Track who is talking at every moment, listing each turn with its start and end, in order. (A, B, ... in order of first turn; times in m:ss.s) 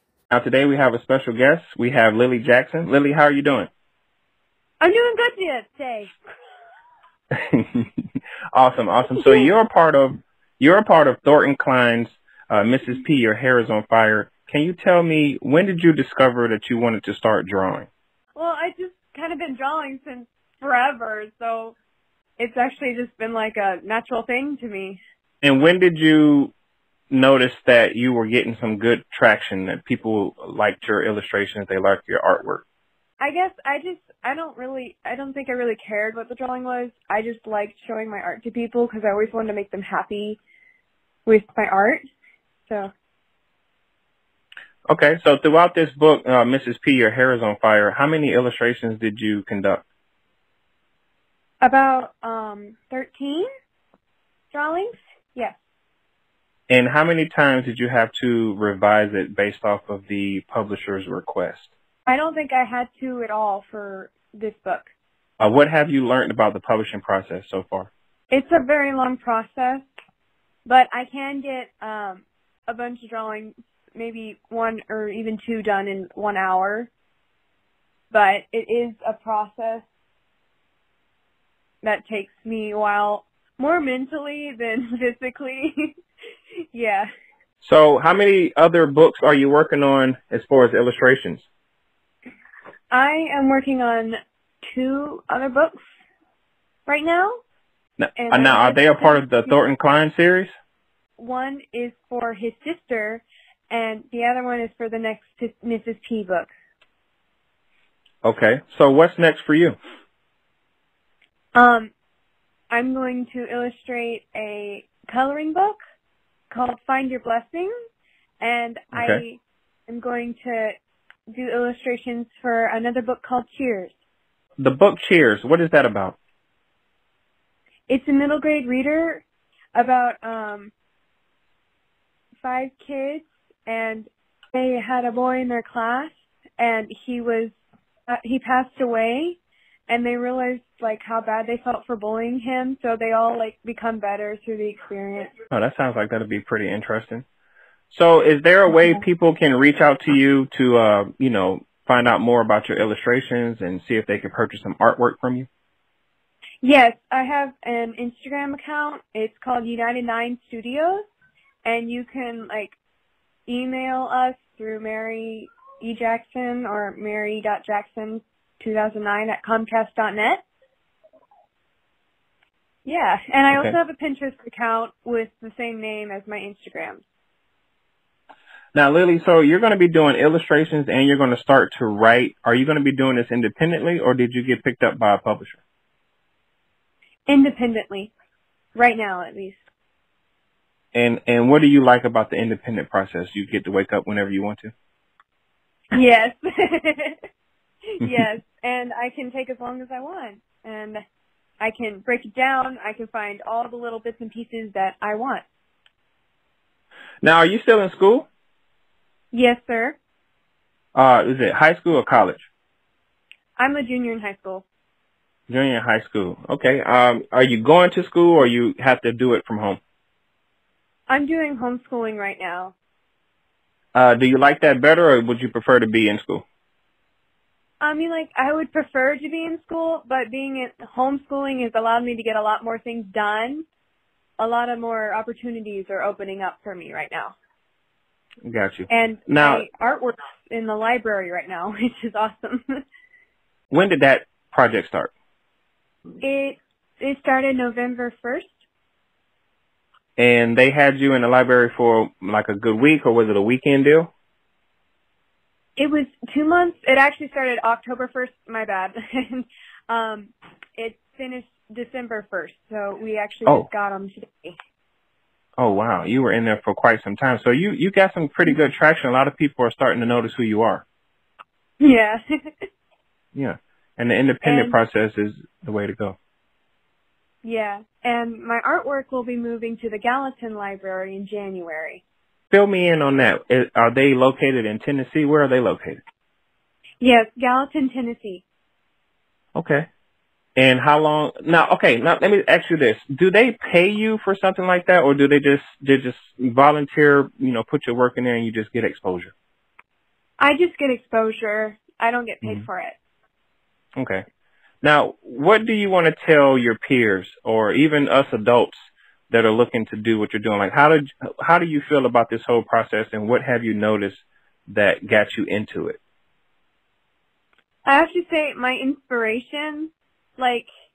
0:00.3-0:03.7 A
0:04.8-0:06.1 B
0:07.5-0:07.9 A
0:08.5-0:17.9 A
0:09.1-0:09.5 B
0:18.3-0:21.7 B
0:22.4-0:25.0 B
0:25.4-0:26.5 A
0:27.1-0:32.6 A
0:33.2-0:40.4 B
0:41.2-0:42.0 B
0:44.9-0:49.8 A
0:51.6-0:53.5 B
0:54.5-0:55.6 B
0:56.7-1:01.7 A
1:02.1-1:04.9 B
1:05.4-1:07.9 A
1:08.3-1:09.8 B
1:10.6-1:16.9 B
1:18.1-1:19.8 B
1:21.8-1:26.0 B
1:26.7-1:27.1 B
1:27.6-1:31.4 A
1:32.9-1:35.8 B
1:36.8-1:37.4 B
1:38.0-1:40.5 A
1:38.2-1:39.6 B
1:41.2-1:46.5 B
1:48.2-1:49.8 A
1:51.5-1:51.9 B
1:52.7-1:55.8 B
1:56.5-1:57.7 B
1:58.4-2:00.7 B
1:58.9-1:59.2 A
2:01.3-2:03.9 B
2:04.6-2:06.2 A
2:07.9-2:09.2 B
2:09.7-2:10.7 B
2:12.4-2:17.5 B
2:18.1-2:25.3 B
2:25.5-2:27.2 A
2:27.9-2:35.5 A
2:36.6-2:41.0 B
2:41.6-2:42.8 B
2:43.5-2:50.4 B
2:52.8-2:57.0 B
2:53.5-2:53.8 A
2:58.7-3:05.6 A
3:07.3-3:08.1 B
3:08.7-3:09.6 B
3:10.9-3:14.7 A
3:15.9-3:17.2 B
3:18.0-3:21.0 B
3:21.6-3:25.4 B
3:27.2-3:28.2 A
3:29.3-3:30.0 B
3:30.9-3:32.4 A
3:33.6-3:34.6 B
3:35.5-3:39.8 A
3:41.1-3:42.7 B
3:43.9-3:46.4 A
3:47.8-3:53.6 B
3:54.4-3:57.3 B
3:58.4-3:59.6 A
3:58.9-4:02.8 B
4:03.7-4:05.1 A
4:06.2-4:08.5 B
4:10.2-4:14.1 A
4:15.8-4:24.6 B
4:25.6-4:30.8 A
4:31.8-4:32.6 B
4:33.3-4:36.2 A
4:34.4-4:34.8 B
4:37.4-4:42.0 B
4:42.5-4:46.0 A
4:47.0-4:48.4 B
4:49.5-4:49.9 A
4:50.6-4:59.3 A
5:00.4-5:03.0 B
5:04.0-5:04.2 A
5:04.8-5:16.0 A
5:17.8-5:20.7 B